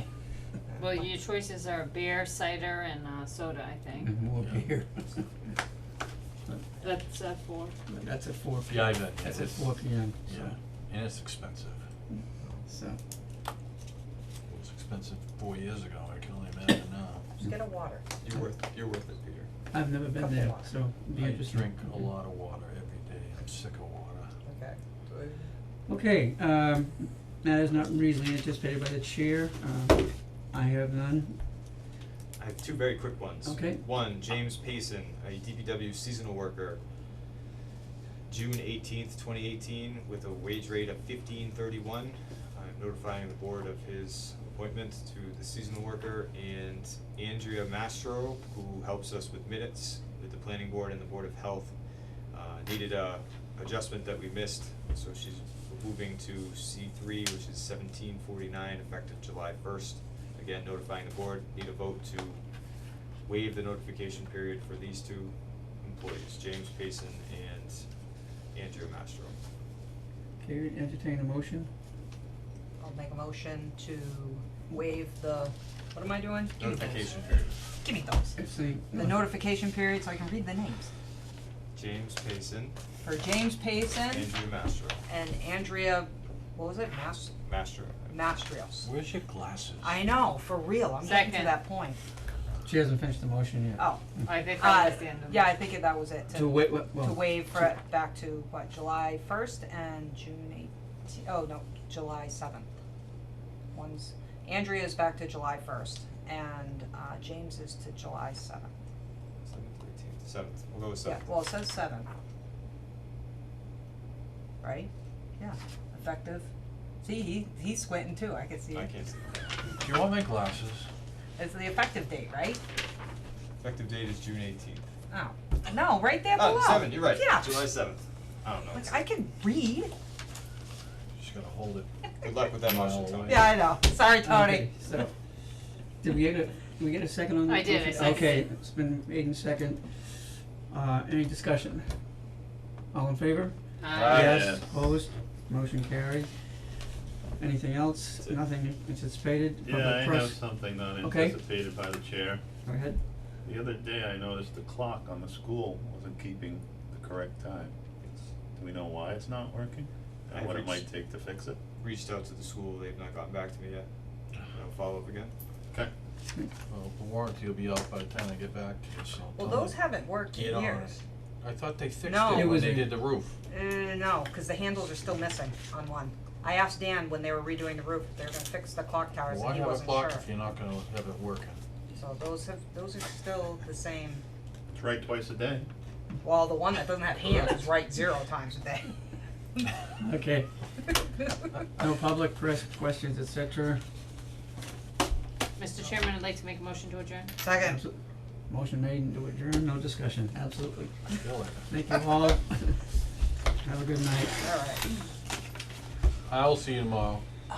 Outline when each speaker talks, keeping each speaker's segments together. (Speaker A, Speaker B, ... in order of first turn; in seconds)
Speaker A: 0.8-4.1, 6.8-7.8, 91.0-91.6, 94.2-95.6, 137.4-138.5, 143.8-144.1, 195.6-197.3
Speaker B: 4.0-5.2, 7.9-10.6, 12.7-13.0, 19.7-22.1, 25.9-31.4, 33.4-33.8, 70.4-71.7, 78.4-79.2, 92.7-94.4, 96.3-97.7, 134.2-135.1, 136.0-141.9, 142.9-143.5, 144.1-146.3, 147.4-151.4, 152.7-153.0, 172.3-173.0, 190.0-190.5, 191.8-193.8, 197.6-197.9, 198.5-202.8, 203.6-204.4
Speaker C: 8.7-11.8, 14.5-17.3, 21.1-24.3, 88.8-90.0, 119.8-120.9, 131.2-131.9, 132.6-133.7, 143.9-144.6, 166.7-169.8, 170.3-173.3, 179.2-181.6, 201.2-201.7, 206.3-207.2
Speaker D: 17.4-18.0, 20.1-20.7, 24.4-25.5, 72.8-77.1, 77.8-80.9, 83.0-84.3, 85.1-87.3, 88.1-88.8, 89.8-92.0, 93.8-102.7, 103.7-108.7, 111.0-112.1, 114.6-116.5, 117.0-118.9, 121.4-122.6, 125.1-127.7, 128.7-129.9, 133.3-134.8, 169.3-170.9, 172.0-172.6, 173.5-180.3, 181.9-184.2, 186.2-188.9, 197.4-197.8, 204.4-204.9
Speaker E: 18.2-19.5, 32.4-36.8, 38.3-51.7, 52.3-62.4, 63.2-67.9, 68.5-69.3, 76.6-77.5, 81.7-82.8, 84.0-85.0, 87.4-88.2, 109.4-111.3, 118.7-119.5, 123.6-124.8, 126.3-129.0, 132.2-133.6, 160.3-160.8, 161.8-163.9, 164.5-165.3, 170.6-170.8
Speaker F: 143.9-144.7, 149.6-152.4, 153.4-157.8, 158.5-161.6, 184.7-185.7